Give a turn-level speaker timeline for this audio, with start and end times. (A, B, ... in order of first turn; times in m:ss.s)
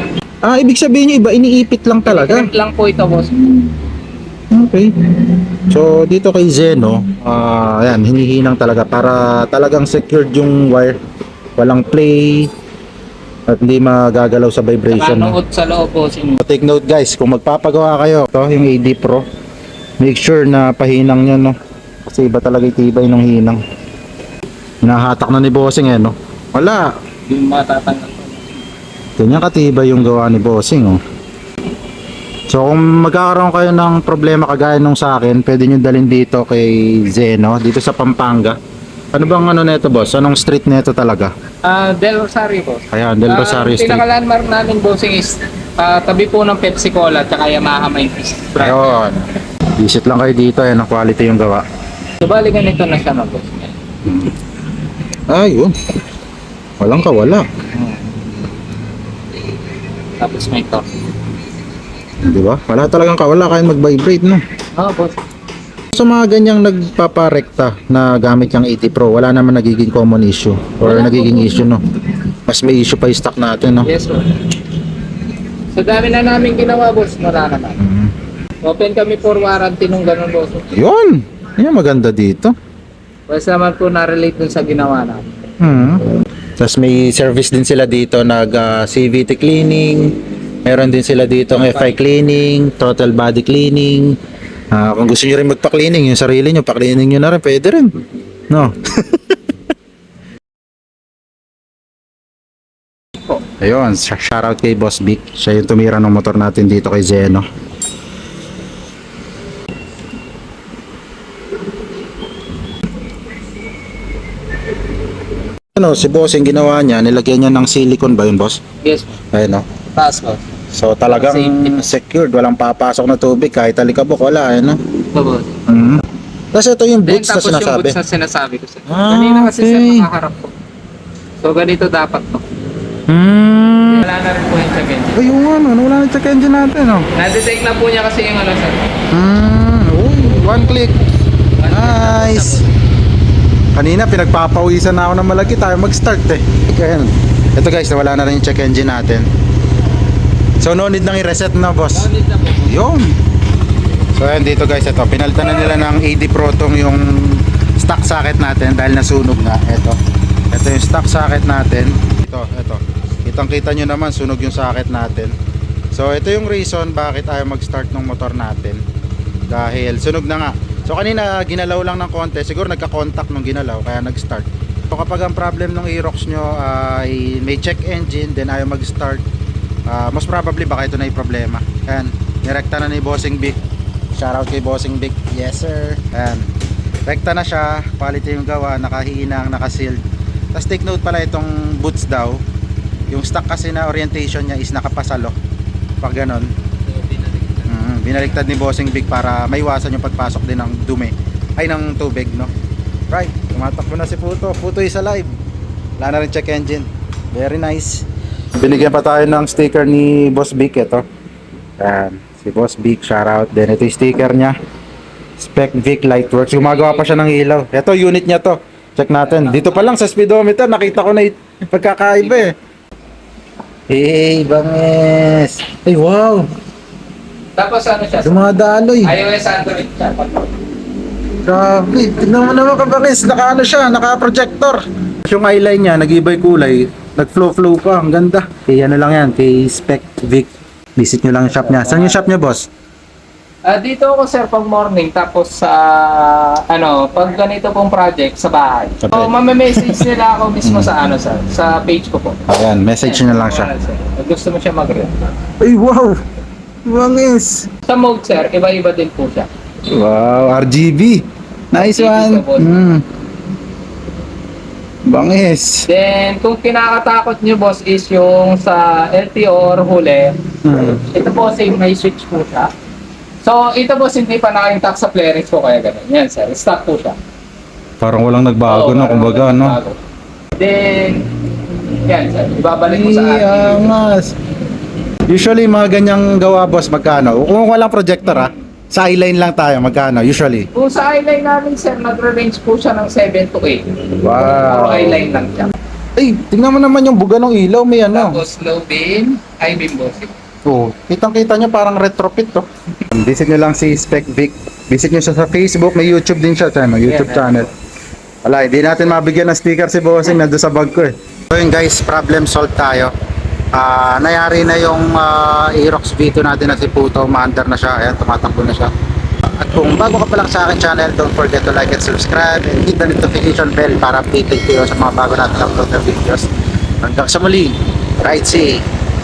0:00.4-0:02.5 A
0:02.0-0:03.7 B
0:04.5-0:04.9 A
0:05.6-0:11.0 A
0:11.6-0:12.5 A
0:13.5-0:15.4 A
0:14.9-0:16.4 B
0:16.4-0:19.2 A
0:20.0-0:23.6 A
0:24.8-0:26.8 A
0:27.3-0:28.6 B
0:29.2-0:31.0 A
0:32.5-0:38.6 A
0:39.1-0:41.3 A
0:41.6-0:48.9 B
0:42.9-0:44.0 A
0:48.6-0:49.2 A
0:49.8-0:51.6 A
0:52.2-0:53.7 B
0:55.3-0:55.7 A
0:56.8-0:57.4 A
0:57.7-0:58.0 B
1:00.2-1:00.8 B
1:02.2-1:04.4 A
1:04.7-1:05.2 B
1:05.9-1:11.8 A
1:10.8-1:11.7 B
1:12.5-1:13.9 A
1:13.8-1:14.3 B
1:15.7-1:17.8 B
1:17.8-1:18.1 A
1:18.6-1:20.7 B
1:20.7-1:22.5 A
1:23.3-1:25.2 B
1:25.6-1:26.0 A
1:26.6-1:34.2 A
1:31.6-1:31.9 B
1:34.7-1:37.9 A
1:38.5-1:39.3 A
1:43.6-1:47.4 A
1:55.7-1:58.6 A
1:58.8-1:59.2 B
1:59.3-1:59.6 A
1:59.9-2:00.4 B
2:00.7-2:04.8 A
2:01.0-2:01.9 B
2:05.1-2:05.6 B
2:05.7-2:08.0 A
2:07.0-2:10.5 B
2:08.9-2:10.1 A
2:11.4-2:12.4 B
2:13.1-2:14.0 A
2:13.9-2:15.3 B
2:15.1-2:17.1 A
2:17.1-2:18.9 B
2:19.1-2:20.9 A
2:21.6-2:22.7 B
2:21.7-2:22.6 A
2:23.7-2:29.3 A
2:30.6-2:32.1 A
2:32.0-2:32.7 B
2:32.6-2:33.1 A
2:34.2-2:40.0 A
2:40.5-2:45.3 A
2:45.9-2:48.8 A
2:49.5-2:59.2 A
2:59.9-3:03.6 A
3:04.1-3:06.5 A
3:07.0-3:10.0 A
3:10.5-3:12.4 A
3:13.1-3:15.3 A
3:16.0-3:16.5 A
3:16.9-3:17.6 B
3:17.6-3:22.5 A
3:23.1-3:25.3 A
3:26.0-3:28.0 A
3:28.6-3:31.0 A
3:31.8-3:34.6 A
3:35.4-3:42.5 A
3:36.5-3:37.2 B
3:39.2-3:40.0 B
3:42.2-3:42.4 B
3:43.9-3:46.5 A
3:47.6-3:50.5 B
3:48.2-3:49.2 A
3:51.4-4:02.7 A
4:01.5-4:02.3 B
4:03.6-4:15.3 B
4:09.0-4:10.1 A
4:10.6-4:10.9 A
4:12.5-4:13.7 A
4:15.6-4:16.2 A
4:16.8-4:17.7 A
4:17.8-4:19.5 B
4:19.9-4:23.0 A
4:21.7-4:22.7 B
4:25.1-4:25.9 A
4:25.9-4:30.4 B
4:30.6-4:31.0 A
4:30.9-4:32.7 B
4:33.4-4:37.2 B
4:38.0-4:39.8 A
4:38.7-4:40.0 B
4:40.6-4:41.3 B
4:41.8-4:43.9 B
4:42.8-4:44.3 A
4:45.3-4:50.7 A
4:48.2-4:48.6 B
4:50.7-4:55.7 B
4:54.2-4:55.2 A
4:56.2-4:58.4 A
4:58.1-5:00.4 B
5:00.6-5:07.7 A
5:07.0-5:07.7 B
5:08.4-5:13.1 A
5:13.7-5:18.9 A
5:19.4-5:26.4 A
5:27.0-5:28.8 A